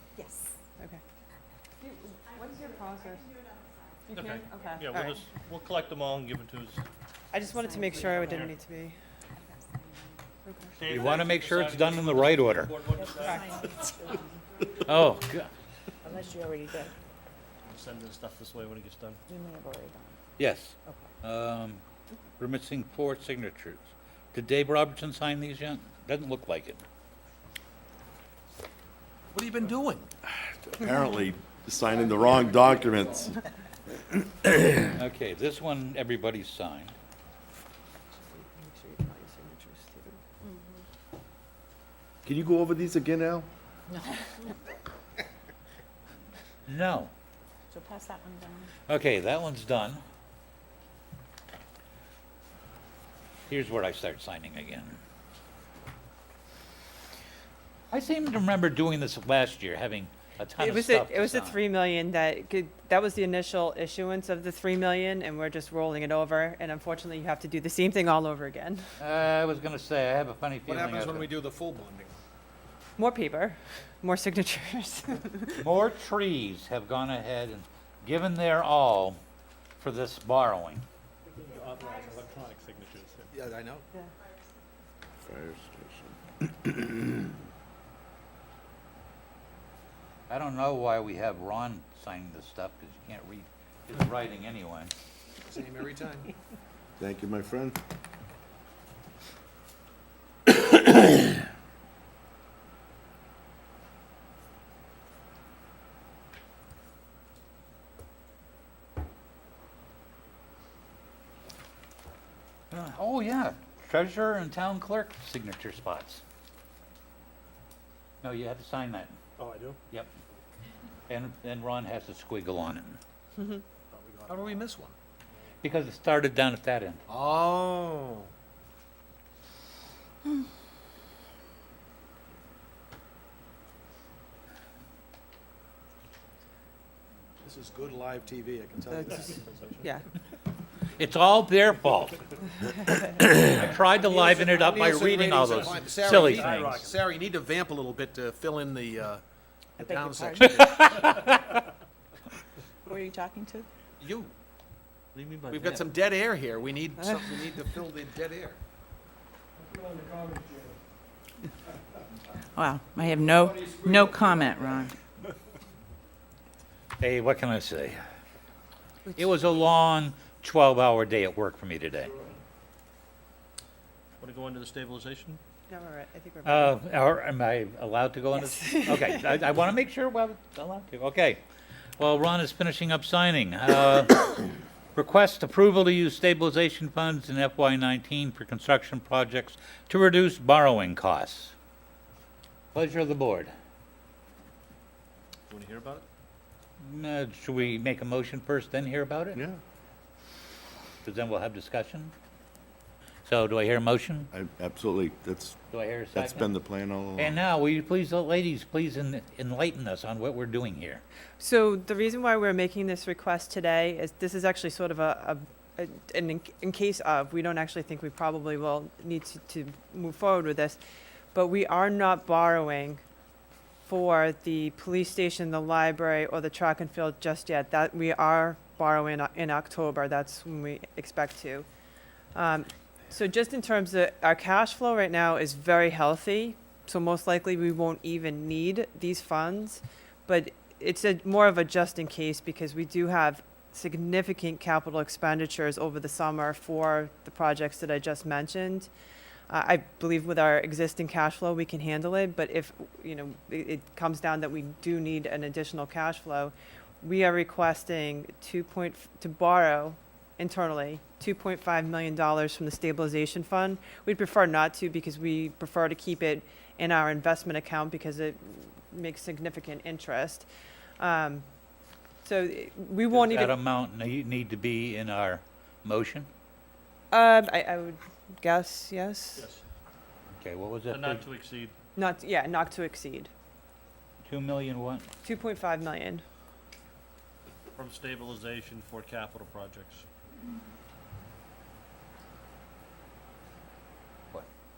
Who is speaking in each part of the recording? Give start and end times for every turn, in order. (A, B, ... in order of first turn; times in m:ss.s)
0:00.2-0:00.5 A
0:01.8-0:03.4 B
0:04.1-0:05.2 B
0:04.1-0:06.8 C
0:07.3-0:09.0 B
0:07.4-0:08.5 A
0:08.0-0:08.5 C
0:09.4-0:10.2 A
0:10.4-0:10.7 B
0:10.8-0:13.7 C
0:10.8-0:12.8 D
0:12.9-0:14.3 A
0:14.8-0:15.5 D
0:16.0-0:16.9 A
0:17.7-0:19.2 C
0:19.3-0:20.2 A
0:20.4-0:21.8 D
0:22.4-0:26.8 D
0:29.3-0:30.1 E
0:30.4-0:33.4 F
0:35.0-0:37.0 D
0:38.2-0:40.2 B
0:40.4-0:40.8 A
0:42.2-0:43.5 F
0:43.9-0:44.3 A
0:46.7-0:47.1 D
0:47.7-0:48.7 A
0:48.9-0:50.0 D
0:53.5-0:55.0 D
0:57.9-1:01.6 D
1:00.6-1:08.9 B
1:09.0-1:11.3 D
1:10.7-1:12.2 E
1:13.0-1:15.6 B
1:15.6-1:19.2 D
1:19.8-1:20.8 D
1:23.3-1:23.8 E
1:25.2-1:27.2 F
1:30.3-1:34.9 D
1:35.5-1:36.3 E
1:37.0-1:37.8 F
1:40.6-1:40.9 F
1:52.7-1:56.2 D
1:58.2-1:59.2 D
2:01.1-2:03.0 D
2:03.9-2:05.0 E
2:05.6-2:07.0 D
2:07.1-2:08.3 E
2:17.4-2:19.9 E
2:21.0-2:22.2 D
2:23.0-2:26.8 D
2:24.0-2:29.2 E
2:26.4-2:26.8 C
2:29.8-2:30.8 E
2:29.8-2:31.3 A
2:30.5-2:31.4 D
2:32.9-2:33.7 A
2:34.0-2:34.3 E
2:35.1-2:35.9 C
2:35.5-2:38.6 E
2:42.6-2:44.9 G
2:43.6-2:44.4 E
2:47.0-2:48.0 D
2:49.2-2:52.1 D
2:54.2-2:55.4 C
2:55.7-2:56.8 B
2:56.4-3:01.4 D
2:58.4-2:59.3 B
3:02.0-3:11.5 D
3:12.7-3:13.5 D
3:15.5-3:16.0 C
3:16.8-3:19.4 D
3:21.0-3:22.1 D
3:23.2-3:24.3 D
3:24.3-3:25.6 F
3:25.7-3:26.5 D
3:26.1-3:27.4 F
3:27.2-3:31.0 D
3:31.4-3:40.8 B
3:41.3-3:43.0 B
3:43.9-3:51.7 B
3:52.4-4:08.9 B
4:09.5-4:30.5 B
4:31.0-4:31.4 B
4:32.2-4:33.6 B
4:33.1-4:36.3 D
4:37.1-4:39.4 B
4:39.4-4:39.6 C
4:40.4-4:41.3 D
4:40.9-4:41.8 C
4:42.0-4:43.3 B
4:44.2-4:45.1 D
4:45.2-4:46.2 B
4:47.8-4:50.1 C